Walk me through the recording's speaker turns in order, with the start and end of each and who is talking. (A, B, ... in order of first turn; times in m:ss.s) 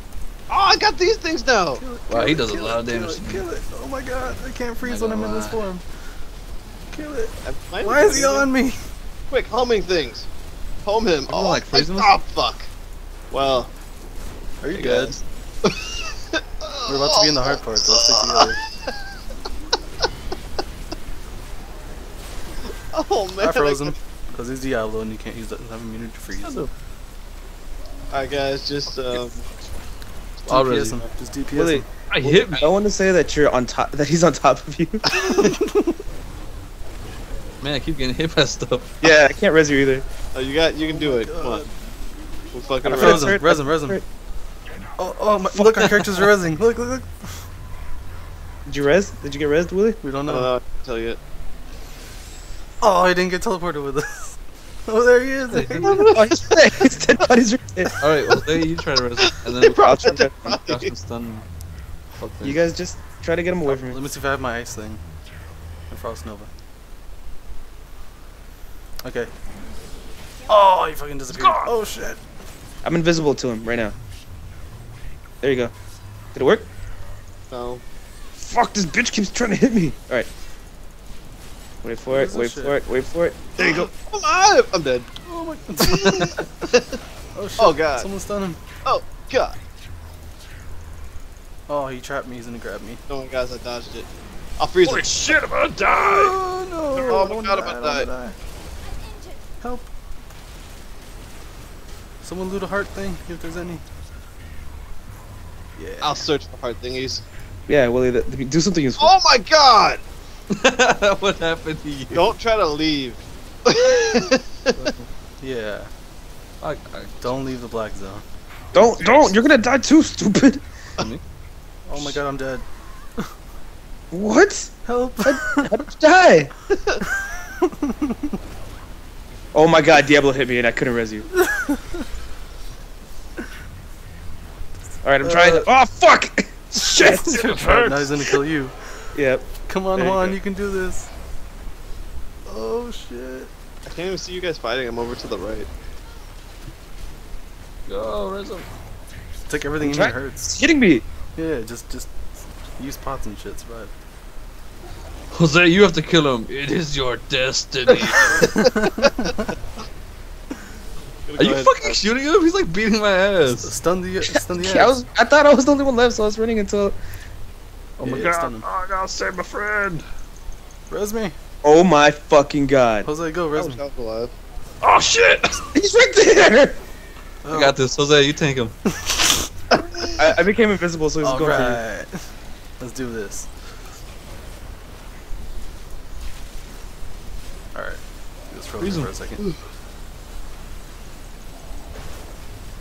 0:00.5-0:01.8 A
0:01.7-0:05.8 B
0:02.1-0:03.5 C
0:04.8-0:05.6 C
0:06.9-0:08.8 B
0:07.4-0:08.5 A
0:09.3-0:10.3 A
0:10.8-0:12.7 A
0:11.3-0:12.1 C
0:13.3-0:13.7 A
0:14.6-0:15.2 B
0:14.7-0:15.1 A
0:15.6-0:19.0 A
0:16.9-0:18.6 B
0:22.9-0:24.0 A
0:23.4-0:26.6 B
0:26.4-0:26.7 C
0:28.1-0:29.5 A
0:30.4-0:31.1 A
0:30.5-0:31.0 C
0:30.5-0:31.9 B
0:31.5-0:35.5 D
0:32.1-0:32.7 C
0:35.1-0:36.0 B
0:37.6-0:38.9 C
0:39.0-0:40.0 D
0:40.3-0:41.6 A
0:40.8-0:41.7 B
0:42.5-0:43.3 A
0:42.8-0:44.0 D
0:42.9-0:44.0 B
0:45.0-0:47.5 B
0:45.5-0:45.8 D
0:45.8-0:46.2 C
0:48.7-0:50.0 D
0:50.0-0:50.5 B
0:50.3-0:51.2 A
0:52.8-0:56.1 B
0:55.5-0:56.2 C
0:55.8-0:56.2 A
0:56.1-0:58.0 D
0:58.0-1:01.5 C
0:59.5-1:00.9 A
0:59.8-1:00.6 D
1:02.2-1:02.6 C
1:02.4-1:04.0 D
1:03.6-1:05.0 B
1:05.9-1:06.5 B
1:09.0-1:09.3 B
1:10.5-1:12.2 B
1:11.3-1:11.6 C
1:12.8-1:14.0 D
1:15.4-1:15.7 D
1:16.3-1:16.7 D
1:17.5-1:17.8 A
1:18.4-1:20.3 D
1:21.8-1:23.5 D
1:22.1-1:22.8 B
1:23.6-1:25.1 A
1:25.2-1:26.4 B
1:25.8-1:27.0 A
1:25.9-1:26.3 C
1:27.3-1:28.6 B
1:27.6-1:28.1 A
1:28.8-1:29.6 A
1:31.7-1:33.0 B
1:33.1-1:35.2 A
1:34.8-1:36.4 C
1:35.9-1:38.4 B
1:37.0-1:37.2 C
1:37.1-1:38.1 A
1:39.6-1:39.9 B
1:42.2-1:43.8 B
1:45.8-1:46.3 B
1:46.0-1:47.2 A
1:47.7-1:49.1 D
1:49.0-1:50.0 A
1:50.5-1:52.3 C
1:52.1-1:54.7 A
1:54.8-1:55.1 C
1:55.4-1:55.9 B
1:56.6-1:57.3 C
1:57.2-1:58.2 B
1:58.7-2:00.6 D
1:58.8-1:59.4 C
2:01.9-2:02.7 B
2:04.1-2:06.5 D
2:04.8-2:05.7 B
2:06.7-2:07.0 A
2:07.0-2:08.4 B
2:09.5-2:11.3 D
2:11.4-2:12.0 B
2:15.0-2:17.4 D
2:15.2-2:15.6 B
2:17.2-2:18.9 B
2:17.3-2:18.2 C
2:19.2-2:19.4 D
2:19.7-2:21.1 B
2:20.0-2:20.4 A
2:22.5-2:23.5 B
2:23.9-2:25.7 A
2:27.9-2:28.7 C
2:29.5-2:30.5 B
2:29.8-2:31.0 D
2:31.4-2:32.1 B
2:32.8-2:33.9 B
2:35.3-2:38.6 C
2:38.4-2:39.5 B
2:38.4-2:39.0 A
2:41.3-2:42.0 A
2:41.4-2:43.7 C
2:43.5-2:45.0 B
2:44.6-2:47.0 D
2:48.0-2:50.0 C
2:48.0-2:48.6 B
2:50.9-2:51.4 B
2:51.6-2:53.1 D
2:53.0-2:53.8 B
2:53.6-2:54.3 A
2:54.8-2:55.6 C
2:55.7-2:56.8 D
2:57.4-2:57.8 B
2:57.5-2:58.7 C
2:58.9-2:59.5 B
2:59.7-3:00.2 A
3:00.2-3:01.8 D
3:01.2-3:02.3 B
3:02.8-3:03.5 B
3:07.7-3:09.4 B
3:08.8-3:09.1 C